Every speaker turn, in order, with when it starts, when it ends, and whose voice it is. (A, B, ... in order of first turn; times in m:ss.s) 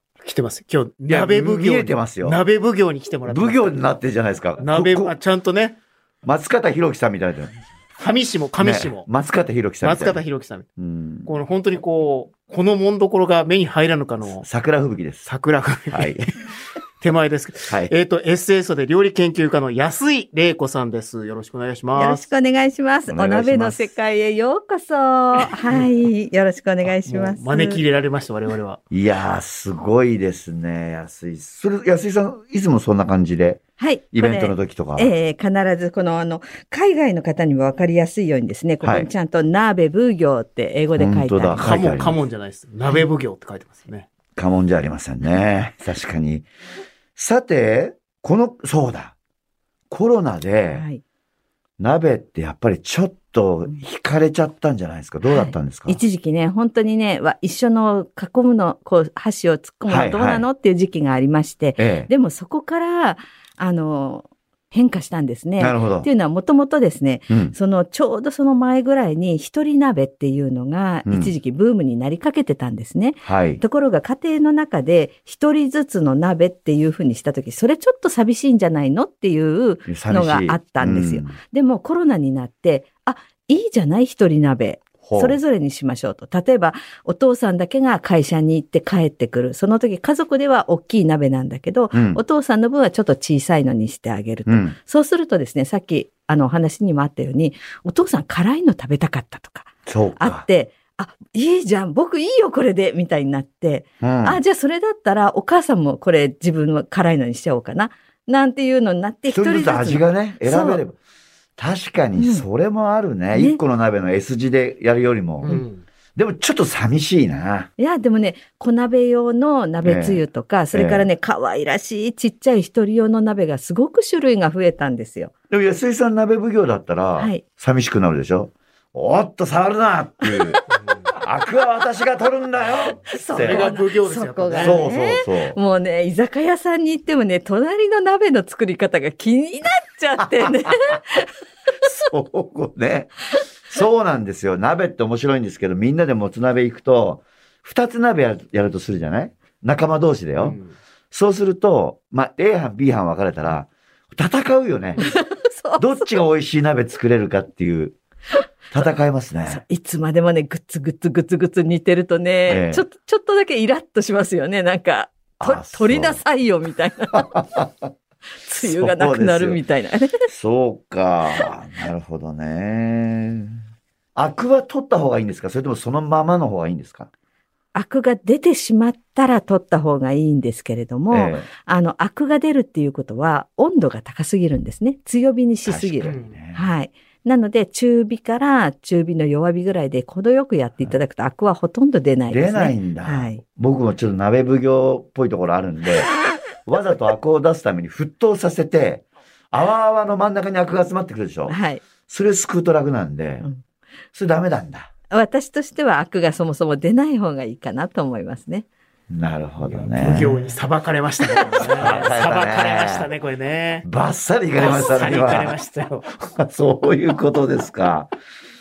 0:00.2-0:03.8 A
0:01.1-0:02.4 B
0:03.3-0:05.1 B
0:04.6-0:05.8 A
0:06.2-0:07.5 B
0:08.0-0:09.1 A
0:08.6-0:10.2 B
0:09.8-0:10.6 A
0:10.8-0:11.3 B
0:11.2-0:14.4 A
0:14.2-0:15.3 B
0:15.2-0:16.3 A
0:15.9-0:16.2 B
0:17.0-0:22.3 A
0:22.0-0:27.8 C
0:23.1-0:23.9 B
0:27.0-0:28.8 A
0:28.9-0:35.1 B
0:33.8-0:41.7 C
0:38.8-0:39.1 B
0:41.0-0:42.2 B
0:41.6-0:44.1 A
0:44.4-0:46.5 B
0:47.2-0:49.1 B
0:49.9-0:50.8 B
0:50.7-0:51.0 C
0:51.8-0:56.0 B
0:55.2-1:50.8 C
0:59.9-1:00.4 B
1:01.8-1:02.1 B
1:05.6-1:06.1 B
1:07.3-1:07.5 B
1:11.0-1:11.3 B
1:13.2-1:13.6 B
1:19.9-1:21.4 B
1:25.0-1:25.4 B
1:31.9-1:32.2 B
1:34.5-1:34.8 B
1:39.8-1:40.4 B
1:44.0-1:44.4 B
1:49.3-1:51.0 B
1:51.6-1:55.6 B
1:52.2-1:52.4 C
1:53.3-1:53.6 C
1:55.4-1:55.8 A
1:56.2-1:57.7 B
1:57.8-2:05.3 C
1:59.8-2:01.1 B
2:05.5-2:10.6 B
2:07.2-2:07.4 C
2:11.2-2:13.7 B
2:13.1-2:21.3 C
2:13.4-2:14.8 A
2:14.6-2:15.6 B
2:20.2-2:21.0 B
2:21.8-2:23.1 B
2:23.6-2:30.6 B
2:30.4-2:30.7 A
2:31.1-2:35.0 B
2:35.0-2:36.1 C
2:35.8-2:38.0 B
2:38.7-2:39.6 B
2:39.5-2:47.3 C
2:42.5-2:42.8 B
2:45.4-2:46.2 B
2:47.1-2:47.9 B
2:48.4-2:50.3 C
2:48.6-2:49.6 B
2:50.3-2:53.6 B
2:54.1-2:57.1 B
2:57.7-3:13.4 C
3:01.1-3:01.5 B
3:05.6-3:06.7 B
3:06.0-3:06.3 A
3:12.3-3:16.1 B
3:16.6-3:21.6 B
3:21.5-3:21.8 C
3:22.1-3:23.4 B
3:24.1-3:24.9 B
3:25.1-3:28.7 C
3:29.1-3:30.4 B
3:29.6-3:33.8 A
3:31.2-3:31.9 C
3:31.7-3:33.1 B
3:33.8-3:35.6 B
3:34.6-3:36.1 A
3:36.2-3:38.1 B